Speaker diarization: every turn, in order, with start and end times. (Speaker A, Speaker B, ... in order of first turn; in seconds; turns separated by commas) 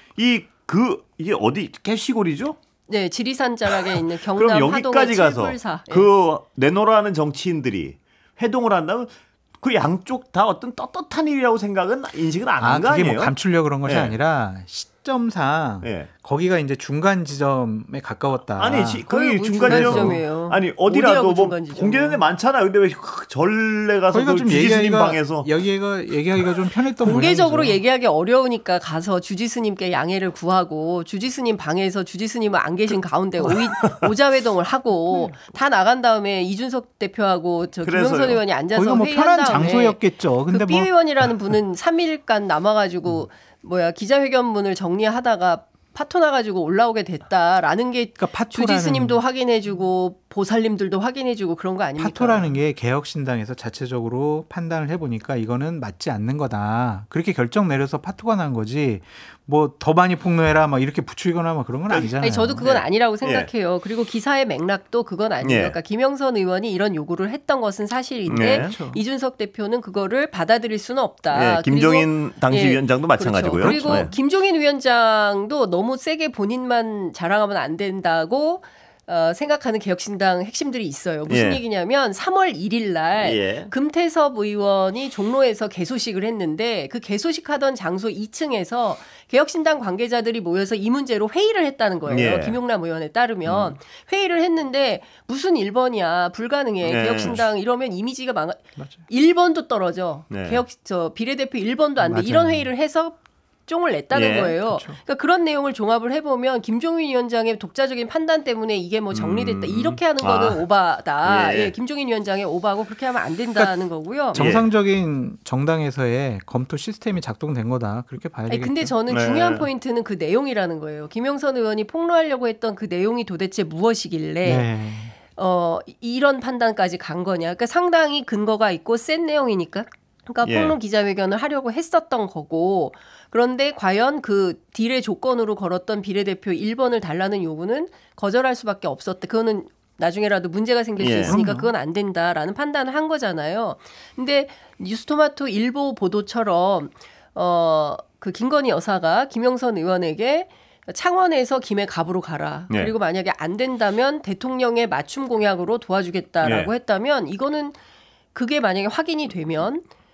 Speaker A: 0.2-2.6, Speaker B: 2.9-6.1, Speaker A: 3.7-14.2, Speaker C: 12.6-19.0, Speaker A: 15.8-16.1, Speaker A: 18.6-25.5, Speaker B: 19.1-22.2, Speaker C: 19.6-20.2, Speaker C: 24.1-27.8, Speaker B: 27.0-52.6, Speaker A: 33.8-34.1, Speaker A: 37.8-38.4, Speaker C: 38.8-40.9, Speaker C: 48.2-49.2, Speaker C: 52.0-62.7, Speaker A: 61.9-63.5, Speaker B: 62.2-114.4, Speaker A: 65.4-65.8, Speaker A: 68.3-68.7, Speaker C: 68.4-69.0, Speaker A: 71.3-74.1, Speaker A: 81.3-81.6, Speaker A: 83.2-83.7, Speaker A: 92.1-92.6, Speaker A: 93.5-93.8, Speaker A: 96.8-97.5, Speaker A: 100.3-100.6, Speaker C: 102.0-102.7, Speaker A: 104.1-104.6, Speaker C: 104.7-105.0, Speaker A: 109.1-110.6, Speaker A: 111.2-111.7, Speaker A: 114.3-114.7, Speaker C: 114.3-118.9, Speaker B: 118.5-124.7, Speaker A: 119.1-119.7, Speaker C: 124.4-125.2, Speaker B: 125.3-157.8, Speaker A: 130.4-130.8, Speaker A: 141.0-141.4, Speaker C: 141.3-141.7, Speaker A: 156.4-156.7, Speaker B: 158.3-159.8